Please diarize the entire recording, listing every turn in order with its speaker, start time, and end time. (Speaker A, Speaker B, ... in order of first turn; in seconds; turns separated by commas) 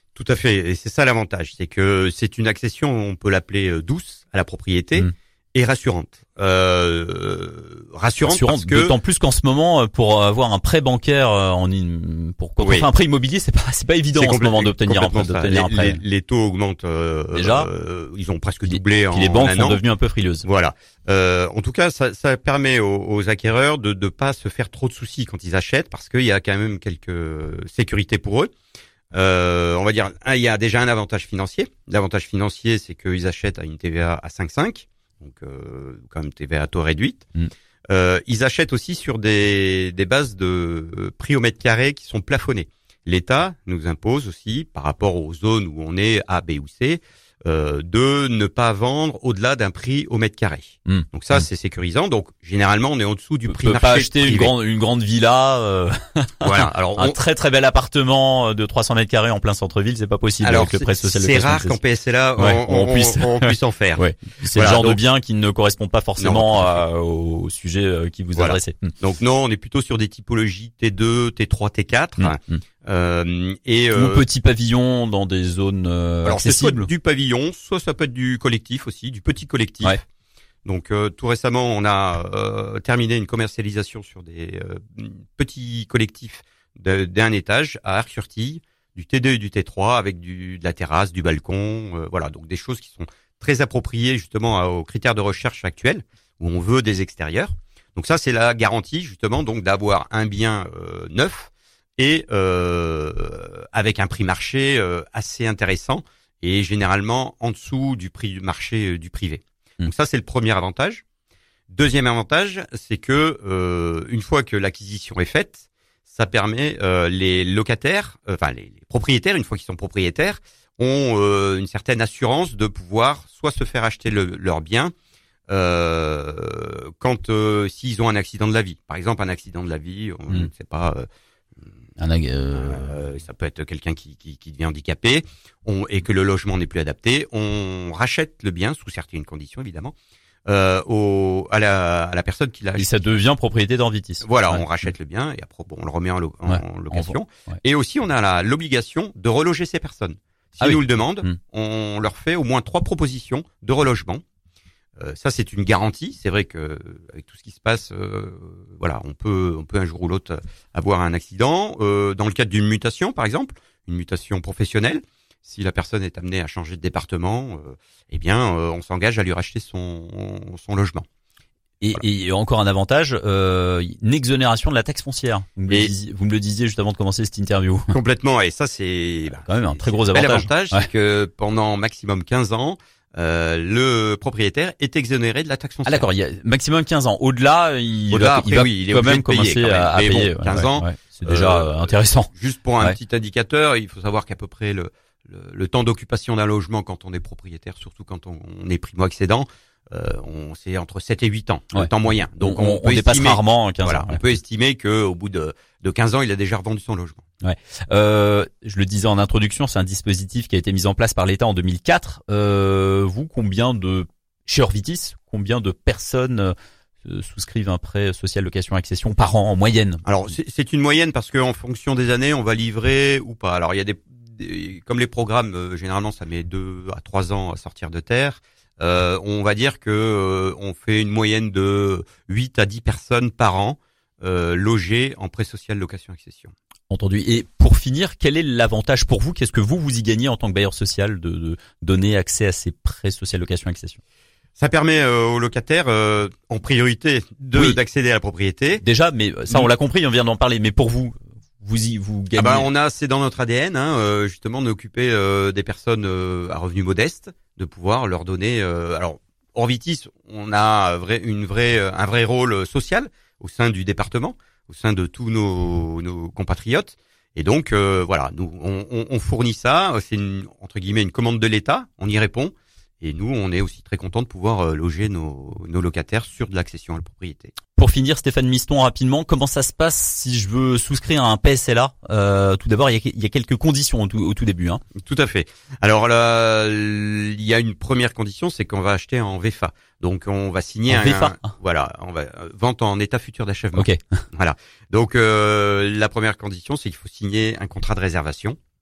Speaker A: 0.1-9.0, Speaker B: 8.2-16.0, Speaker A: 12.6-12.9, Speaker A: 14.2-19.8, Speaker B: 17.3-17.7, Speaker B: 18.7-20.5, Speaker A: 20.4-28.5, Speaker A: 29.1-37.3, Speaker A: 37.9-54.5, Speaker B: 53.5-61.8, Speaker A: 56.4-57.2, Speaker A: 60.4-65.0, Speaker B: 62.4-68.9, Speaker A: 66.2-66.8, Speaker A: 68.4-74.2, Speaker B: 72.2-72.6, Speaker B: 73.9-76.9, Speaker A: 76.2-80.0, Speaker A: 80.7-111.0, Speaker A: 111.7-124.9, Speaker A: 125.5-131.1, Speaker B: 132.0-133.0, Speaker A: 132.5-139.9, Speaker A: 140.5-142.9, Speaker B: 142.8-144.7, Speaker A: 144.2-154.2, Speaker B: 146.5-147.2, Speaker B: 150.6-151.4, Speaker A: 155.0-171.1, Speaker B: 171.8-177.9, Speaker A: 175.7-175.9, Speaker A: 177.9-186.1, Speaker B: 179.4-180.9, Speaker B: 185.9-192.3, Speaker A: 188.1-207.2, Speaker B: 201.7-204.2, Speaker B: 207.4-220.1, Speaker A: 220.1-236.5, Speaker B: 236.9-244.0, Speaker A: 244.6-248.8, Speaker B: 248.8-252.7, Speaker A: 252.4-277.6, Speaker B: 277.8-284.8, Speaker A: 285.0-298.6, Speaker B: 290.9-291.5, Speaker B: 293.8-294.0